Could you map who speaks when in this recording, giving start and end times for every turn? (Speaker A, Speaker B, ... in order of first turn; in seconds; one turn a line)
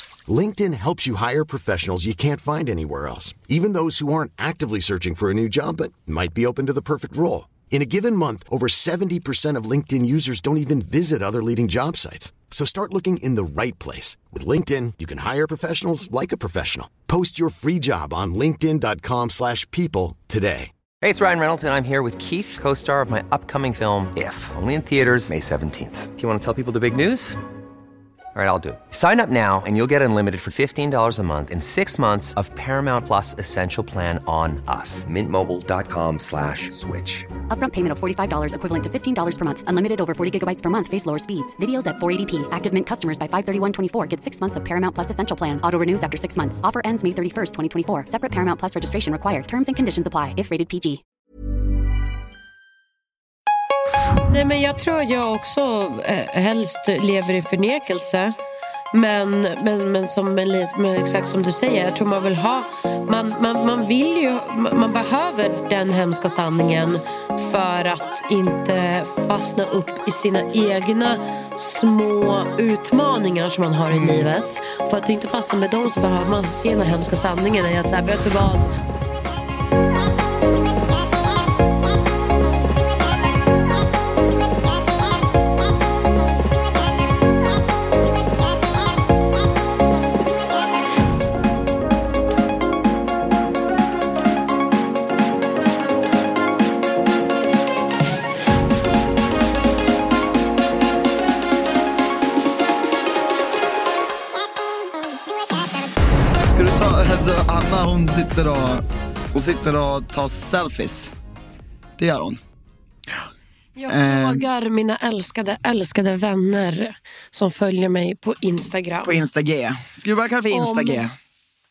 Speaker A: 0.3-20.7
Speaker B: 21.0-27.4
Speaker B: 28.3-37.3
Speaker C: 37.5-51.0
Speaker D: 54.3-58.3
Speaker D: 58.9-78.7
Speaker E: 73.9-74.3
Speaker E: 106.4-111.1
Speaker E: 112.0-112.4
Speaker D: 113.8-119.2
Speaker E: 113.9-114.5
Speaker E: 119.0-121.1
Speaker D: 120.5-121.0